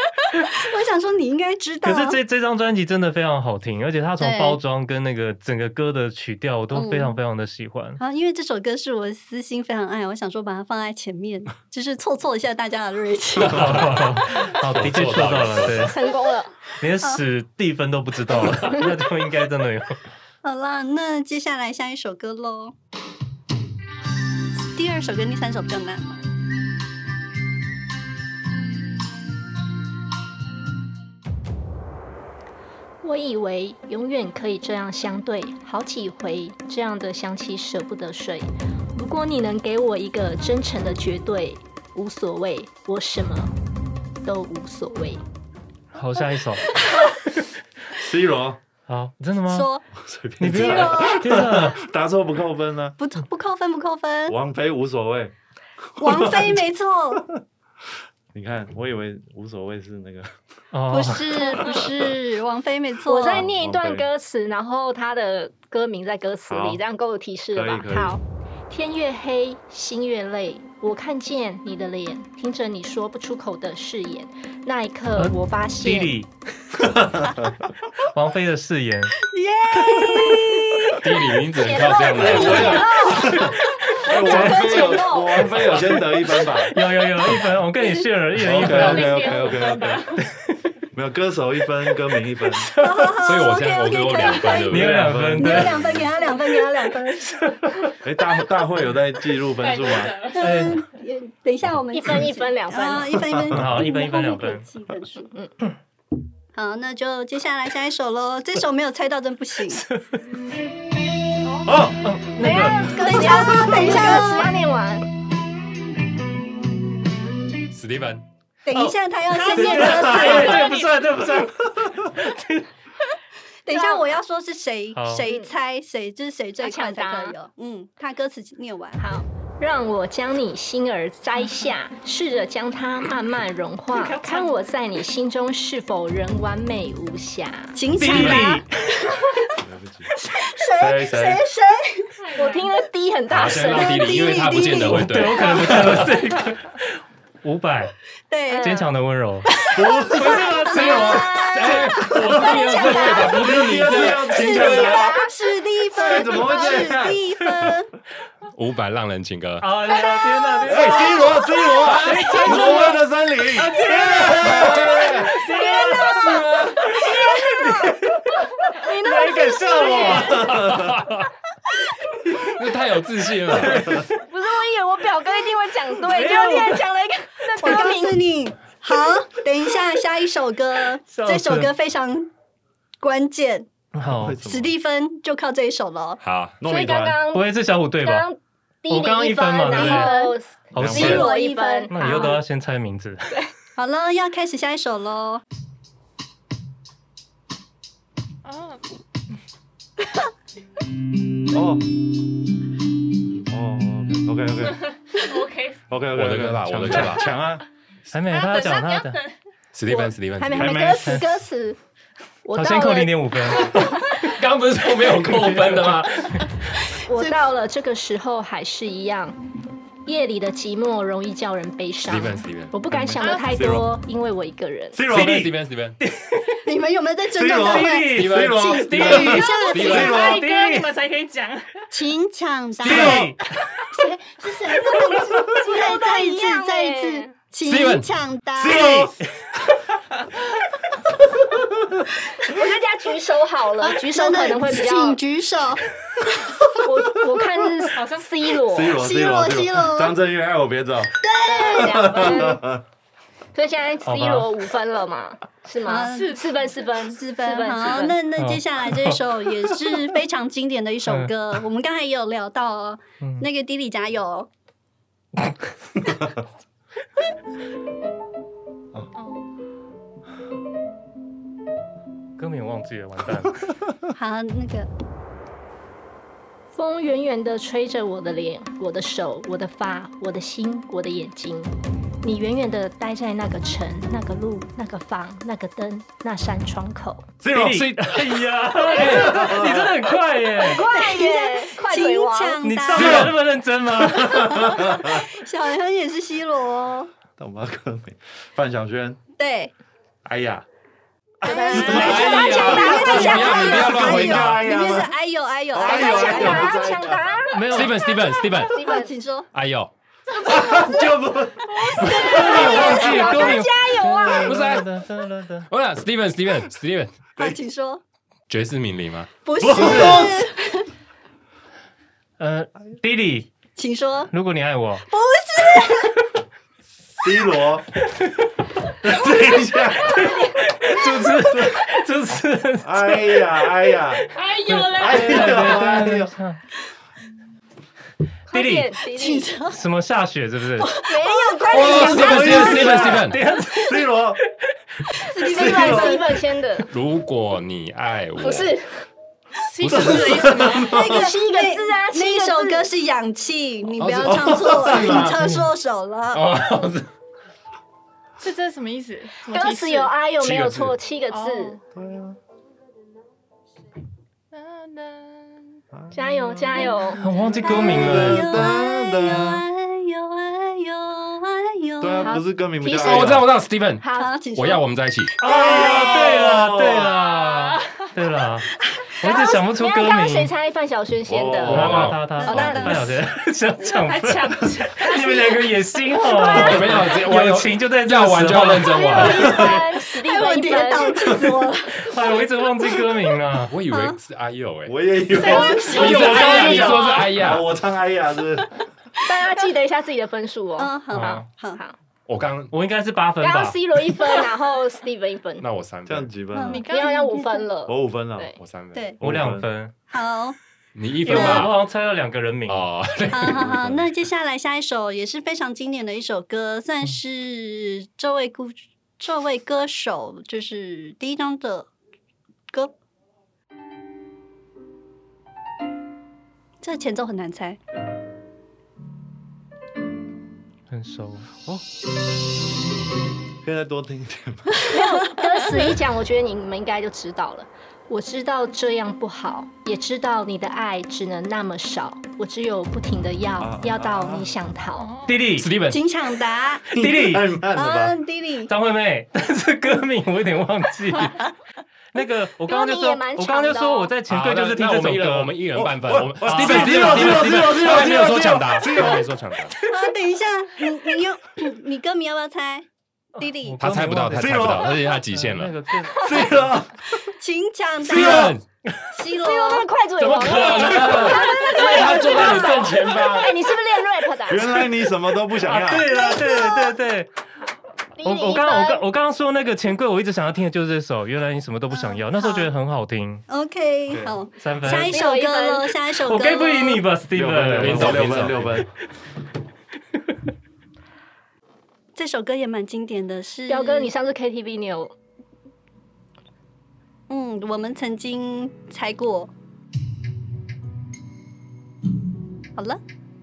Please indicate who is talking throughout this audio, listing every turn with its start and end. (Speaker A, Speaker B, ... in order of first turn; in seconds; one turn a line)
Speaker A: 0.5-2.2
Speaker B: 1.8-8.0
Speaker A: 4.2-4.6
Speaker A: 6.7-7.2
Speaker A: 8.0-13.7
Speaker B: 13.4-16.0
Speaker C: 13.5-15.9
Speaker D: 15.7-16.6
Speaker B: 16.8-20.0
Speaker A: 20.4-22.7
Speaker A: 24.7-26.2
Speaker D: 33.0-43.5
Speaker D: 44.2-45.2
Speaker B: 45.9-46.8
Speaker E: 47.9-48.6
Speaker B: 48.9-49.7
Speaker A: 49.5-49.8
Speaker E: 49.9-53.0
Speaker B: 50.4-51.8
Speaker A: 50.5-51.2
Speaker A: 53.0-54.4
Speaker E: 54.3-55.3
Speaker A: 56.0-57.2
Speaker E: 56.0-56.6
Speaker E: 58.3-60.3
Speaker B: 60.7-61.7
Speaker A: 60.9-63.5
Speaker D: 63.1-76.2
Speaker E: 63.3-64.0
Speaker E: 66.5-66.8
Speaker E: 67.5-68.2
Speaker B: 75.2-76.3
Speaker E: 76.8-77.5
Speaker B: 78.1-79.2
Speaker A: 79.3-81.0
Speaker C: 81.0-83.0
Speaker D: 81.6-83.3
Speaker E: 82.1-87.4
Speaker A: 82.4-83.5
Speaker A: 84.0-85.2
Speaker B: 84.2-85.0
Speaker B: 86.7-89.4
Speaker E: 88.4-90.1
Speaker F: 88.7-90.3
Speaker B: 90.2-90.6
Speaker E: 90.9-92.7
Speaker A: 92.8-97.4
Speaker C: 93.2-95.7
Speaker B: 94.7-95.8
Speaker E: 94.7-96.1
Speaker B: 97.4-98.0
Speaker E: 98.0-100.2
Speaker F: 99.6-100.6
Speaker A: 100.3-105.3
Speaker B: 100.4-100.8
Speaker D: 101.9-103.2
Speaker E: 103.4-103.8
Speaker B: 103.5-104.7
Speaker A: 106.5-109.8
Speaker B: 109.7-110.2
Speaker F: 111.5-111.8
Speaker E: 111.7-112.0
Speaker B: 112.0-113.3
Speaker D: 112.4-115.1
Speaker A: 112.8-114.6
Speaker C: 117.7-118.2
Speaker A: 118.7-120.7
Speaker B: 118.7-119.0
Speaker F: 119.3-121.3
Speaker B: 119.5-122.7
Speaker A: 123.7-129.0
Speaker D: 123.7-124.1
Speaker B: 125.0-125.3
Speaker D: 125.3-125.5
Speaker D: 126.6-127.4
Speaker D: 129.0-137.8
Speaker F: 133.9-134.7
Speaker A: 137.8-139.5
Speaker B: 137.9-139.0
Speaker E: 139.6-140.1
Speaker A: 140.3-142.1
Speaker E: 140.8-141.4
Speaker F: 142.2-142.8
Speaker D: 142.3-144.2
Speaker C: 143.3-146.1
Speaker A: 143.7-145.7
Speaker B: 144.9-147.9
Speaker A: 148.3-148.8
Speaker D: 148.5-148.9
Speaker B: 148.6-153.9
Speaker E: 149.7-150.6
Speaker A: 150.0-157.9
Speaker C: 150.7-154.7
Speaker E: 153.3-155.2
Speaker D: 154.7-155.2
Speaker E: 155.9-157.2
Speaker C: 158.5-159.7
Speaker B: 159.6-168.2
Speaker E: 160.6-165.4
Speaker C: 161.8-162.8
Speaker C: 164.4-165.2
Speaker D: 165.6-167.7
Speaker C: 166.2-166.7
Speaker D: 168.8-170.4
Speaker B: 168.8-171.3
Speaker E: 170.4-170.8
Speaker C: 172.4-173.9
Speaker B: 173.6-174.1
Speaker D: 174.2-178.3
Speaker B: 176.1-176.8
Speaker A: 177.6-182.3
Speaker B: 181.1-181.7
Speaker A: 183.0-183.7
Speaker B: 183.9-184.4
Speaker E: 184.1-184.7
Speaker A: 184.4-186.2
Speaker C: 186.2-186.6
Speaker E: 186.6-187.2
Speaker D: 186.6-192.4
Speaker B: 187.3-188.3
Speaker B: 188.9-190.2
Speaker A: 189.7-190.3
Speaker B: 190.7-191.3
Speaker E: 190.8-191.2
Speaker A: 190.9-192.4
Speaker B: 191.9-193.3
Speaker A: 193.8-195.4
Speaker F: 198.4-198.8
Speaker E: 201.5-201.8
Speaker E: 203.5-204.9
Speaker F: 205.1-205.8
Speaker E: 205.9-207.7
Speaker C: 206.1-207.3
Speaker B: 208.1-209.2
Speaker F: 208.3-209.4
Speaker C: 209.7-210.9
Speaker A: 209.9-210.6
Speaker D: 210.4-211.8
Speaker E: 210.5-211.2
Speaker D: 212.4-214.0
Speaker B: 212.5-214.3
Speaker C: 214.3-216.5
Speaker B: 214.9-216.5
Speaker A: 217.0-217.4
Speaker D: 217.0-219.4
Speaker D: 220.1-225.0
Speaker C: 222.0-222.7
Speaker E: 222.9-223.9
Speaker F: 223.2-223.6
Speaker E: 224.9-225.4
Speaker C: 225.1-226.0
Speaker B: 225.1-226.6
Speaker A: 226.7-230.2
Speaker E: 227.3-230.5
Speaker B: 227.6-230.9
Speaker C: 228.1-230.2
Speaker F: 229.8-231.9
Speaker A: 231.9-233.3
Speaker B: 232.8-233.5
Speaker E: 232.9-233.2
Speaker A: 233.9-239.1
Speaker D: 235.5-237.3
Speaker C: 237.6-238.1
Speaker E: 238.6-239.1
Speaker B: 238.7-239.3
Speaker D: 242.4-245.2
Speaker A: 243.8-245.8
Speaker D: 246.8-249.0
Speaker F: 247.9-248.3
Speaker E: 248.6-252.8
Speaker A: 249.0-250.2
Speaker A: 251.2-252.4
Speaker D: 251.4-252.6
Speaker D: 253.5-258.2
Speaker B: 254.1-254.5
Speaker A: 255.8-256.4
Speaker F: 256.0-256.7
Speaker A: 257.1-264.5
Speaker B: 258.4-259.2
Speaker B: 263.2-263.5
Speaker F: 269.1-269.5
Speaker B: 272.4-273.6
Speaker A: 274.1-274.9
Speaker D: 276.7-287.3
Speaker E: 287.4-288.1
Speaker B: 287.5-290.9
Speaker C: 287.8-288.1
Speaker C: 288.9-289.5
Speaker E: 288.9-290.0
Speaker D: 290.6-292.6
Speaker A: 290.6-293.3
Speaker B: 292.6-294.8
Speaker E: 293.0-293.3
Speaker E: 294.1-295.2
Speaker A: 294.3-297.1
Speaker E: 297.4-299.2
Speaker A: 299.4-299.7
Speaker C: 300.2-300.6
Speaker D: 301.4-303.7
Speaker A: 301.4-306.8
Speaker C: 301.7-304.6
Speaker E: 301.7-302.2
Speaker E: 303.0-305.1
Speaker E: 305.7-307.2
Speaker D: 305.8-309.1
Speaker B: 307.5-308.0
Speaker C: 307.7-308.8
Speaker A: 308.8-309.5
Speaker C: 309.5-309.9
Speaker F: 310.4-311.0
Speaker E: 310.5-312.9
Speaker F: 311.8-312.9
Speaker A: 311.9-313.6
Speaker B: 312.2-315.7
Speaker D: 312.4-314.6
Speaker C: 314.5-314.9
Speaker C: 315.7-317.1
Speaker A: 317.4-318.0
Speaker C: 318.5-319.3
Speaker A: 319.4-320.9
Speaker E: 319.6-320.4
Speaker B: 319.8-320.1
Speaker B: 322.4-323.5
Speaker A: 323.8-324.3
Speaker B: 324.3-325.1
Speaker A: 325.1-326.2
Speaker E: 327.2-327.9
Speaker E: 329.0-330.4
Speaker B: 330.3-333.5
Speaker E: 331.5-331.8
Speaker E: 332.8-334.2
Speaker F: 334.3-335.8
Speaker B: 334.7-336.6
Speaker E: 334.9-336.3
Speaker D: 338.5-339.5
Speaker B: 338.5-338.9
Speaker A: 339.2-339.8
Speaker B: 339.7-341.0
Speaker A: 340.8-342.0
Speaker D: 341.0-343.0
Speaker C: 341.7-343.4
Speaker E: 341.7-344.4
Speaker B: 342.4-344.1
Speaker A: 345.2-346.3
Speaker D: 345.4-346.9
Speaker E: 345.4-346.2
Speaker C: 346.9-348.7
Speaker D: 348.4-349.1
Speaker F: 349.6-350.9
Speaker C: 349.8-350.6
Speaker E: 349.9-351.2
Speaker A: 350.7-356.4
Speaker D: 350.9-352.9
Speaker C: 354.0-355.5
Speaker E: 354.3-355.3
Speaker B: 355.4-355.7
Speaker C: 356.3-357.1
Speaker F: 358.4-360.1
Speaker D: 359.5-361.8
Speaker C: 360.4-361.0
Speaker F: 361.3-361.8
Speaker E: 361.9-362.4
Speaker F: 364.5-365.8
Speaker D: 366.1-367.2
Speaker F: 366.3-367.2
Speaker A: 366.8-367.1
Speaker B: 367.2-368.7
Speaker E: 367.6-369.6
Speaker A: 367.6-372.4
Speaker E: 372.0-373.4
Speaker D: 372.2-374.4
Speaker C: 373.0-375.3
Speaker A: 374.1-374.8
Speaker B: 375.4-380.5
Speaker A: 375.4-376.3
Speaker E: 375.5-377.1
Speaker F: 377.2-378.1
Speaker D: 379.2-383.1
Speaker E: 381.3-382.2
Speaker C: 381.7-382.2
Speaker B: 381.7-389.5
Speaker A: 382.4-383.0
Speaker F: 383.8-386.5
Speaker C: 386.5-389.6
Speaker D: 388.9-391.4
Speaker A: 389.1-392.4
Speaker B: 392.0-393.8
Speaker C: 393.7-395.0
Speaker A: 393.9-394.2
Speaker E: 394.9-398.8
Speaker A: 395.3-396.9
Speaker D: 395.4-397.2
Speaker C: 395.7-397.7
Speaker D: 399.2-402.0
Speaker A: 400.8-401.8
Speaker B: 401.1-401.5
Speaker C: 402.3-402.7
Speaker B: 402.7-403.8
Speaker D: 403.4-405.7
Speaker C: 405.6-406.3
Speaker E: 406.1-406.8
Speaker A: 406.5-407.5
Speaker F: 406.7-407.6
Speaker D: 406.9-408.6
Speaker E: 407.9-408.6
Speaker C: 408.6-409.1
Speaker E: 409.2-409.7
Speaker B: 409.2-409.9
Speaker A: 410.1-410.6
Speaker C: 410.9-411.8
Speaker B: 411.3-412.9
Speaker A: 411.3-411.7
Speaker C: 412.7-414.1
Speaker A: 413.3-421.9
Speaker A: 426.8-427.8
Speaker B: 430.9-431.5
Speaker E: 433.6-434.9
Speaker D: 434.9-445.2
Speaker E: 443.6-444.5
Speaker F: 445.0-445.5
Speaker B: 445.3-445.7
Speaker C: 445.5-446.1
Speaker A: 445.9-446.9
Speaker B: 446.9-447.5
Speaker E: 447.0-448.2
Speaker A: 447.7-448.7
Speaker B: 448.7-451.5
Speaker B: 452.1-455.6
Speaker D: 452.7-454.1
Speaker C: 454.3-459.8
Speaker E: 455.7-459.2
Speaker B: 456.4-458.2
Speaker A: 459.9-462.9
Speaker A: 463.4-463.8
Speaker B: 463.4-466.7
Speaker C: 463.8-465.8
Speaker E: 464.3-465.1
Speaker E: 466.2-467.2
Speaker D: 466.2-466.5
Speaker A: 467.2-468.6
Speaker C: 468.0-468.6
Speaker E: 468.1-468.5
Speaker A: 469.1-469.9
Speaker D: 469.4-474.9
Speaker C: 470.2-473.5
Speaker B: 470.4-471.4
Speaker A: 471.8-472.4
Speaker E: 471.9-473.5
Speaker E: 474.5-476.1
Speaker B: 475.6-477.3
Speaker A: 476.1-476.9
Speaker D: 478.2-479.1
Speaker B: 478.2-483.4
Speaker A: 481.9-482.7
Speaker A: 483.5-487.1
Speaker B: 484.1-485.2
Speaker D: 484.9-485.9
Speaker B: 486.2-488.6
Speaker E: 487.3-488.9
Speaker C: 487.7-488.8
Speaker A: 492.2-494.1
Speaker D: 493.7-495.1
Speaker A: 497.3-499.5